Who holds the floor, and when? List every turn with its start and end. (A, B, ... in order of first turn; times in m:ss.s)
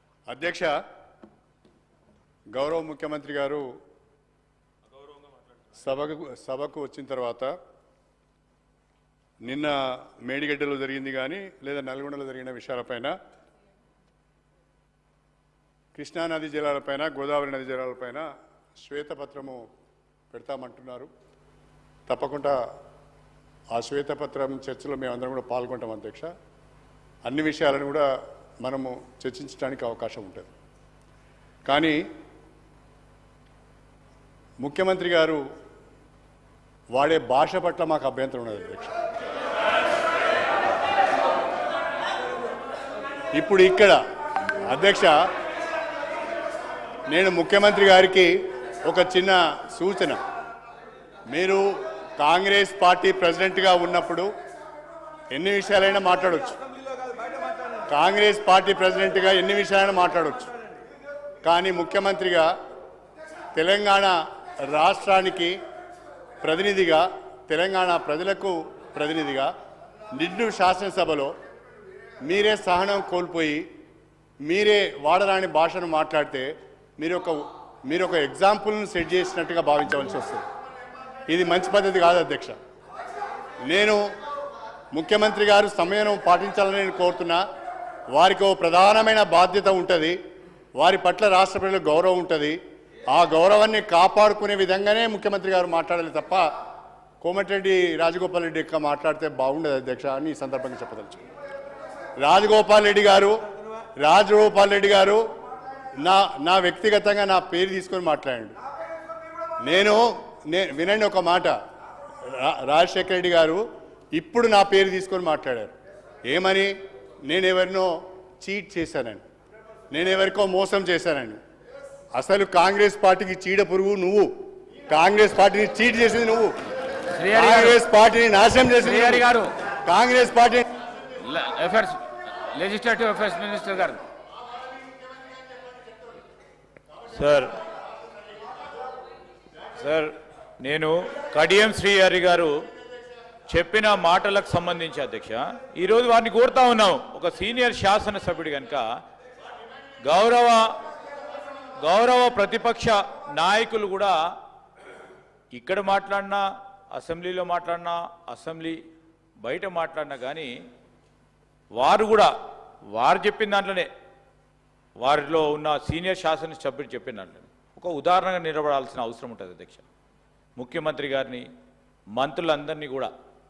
0:00.3-0:00.7 A
0:02.6-0:03.6 A
0:05.8-0:07.5 A
0:09.4-0:13.1 A
0:16.0-0:18.2 A
0:18.8-0:19.6 A
0:20.3-0:21.1 A
0:22.1-0:22.6 A
0:23.7-0:26.3 A
0:27.3-0:28.1 A
0:28.6-0:30.5 A
0:31.7-0:32.0 A
0:34.6-0:35.4 A
0:36.9-0:38.9 A
0:43.4-0:44.0 A
0:44.7-0:45.2 A
0:47.1-0:48.3 A
0:48.9-0:50.2 A
0:51.3-0:51.6 A
0:52.2-0:54.3 A
0:55.3-0:56.6 A
0:57.9-1:00.5 A
1:01.4-1:02.5 A
1:03.6-1:04.2 A
1:04.7-1:05.6 A
1:06.4-1:09.5 A
1:10.2-1:11.3 A
1:12.3-1:13.7 A
1:14.4-1:20.4 A
1:21.3-1:22.6 A
1:23.7-1:24.0 A
1:24.9-1:27.4 A
1:28.1-1:30.2 A
1:30.8-1:32.6 A
1:33.1-1:36.4 A
1:37.2-1:41.2 A
1:42.2-1:43.4 A
1:44.0-1:45.2 A
1:46.0-1:48.5 A
1:49.6-1:51.5 A
1:52.3-1:53.6 A
1:54.2-1:55.7 A
1:56.3-1:56.7 A
1:57.3-1:59.2 A
1:59.9-2:01.4 A
2:02.2-2:04.3 A
2:04.9-2:06.5 A
2:07.2-2:07.6 B
2:07.3-2:09.3 A
2:08.8-2:09.4 B
2:09.9-2:10.6 A
2:11.3-2:11.9 C
2:12.6-2:14.0 C
2:12.7-2:13.6 B
2:17.1-2:17.5 C
2:19.8-2:22.6 C
2:23.5-2:28.8 C
2:30.0-2:30.7 C
2:31.8-2:34.2 C
2:35.5-2:38.8 C
2:39.4-2:40.5 C
2:41.8-2:42.3 C
2:42.9-2:43.9 C
2:45.0-2:49.8 C
2:50.6-2:51.5 C
2:52.2-2:53.1 C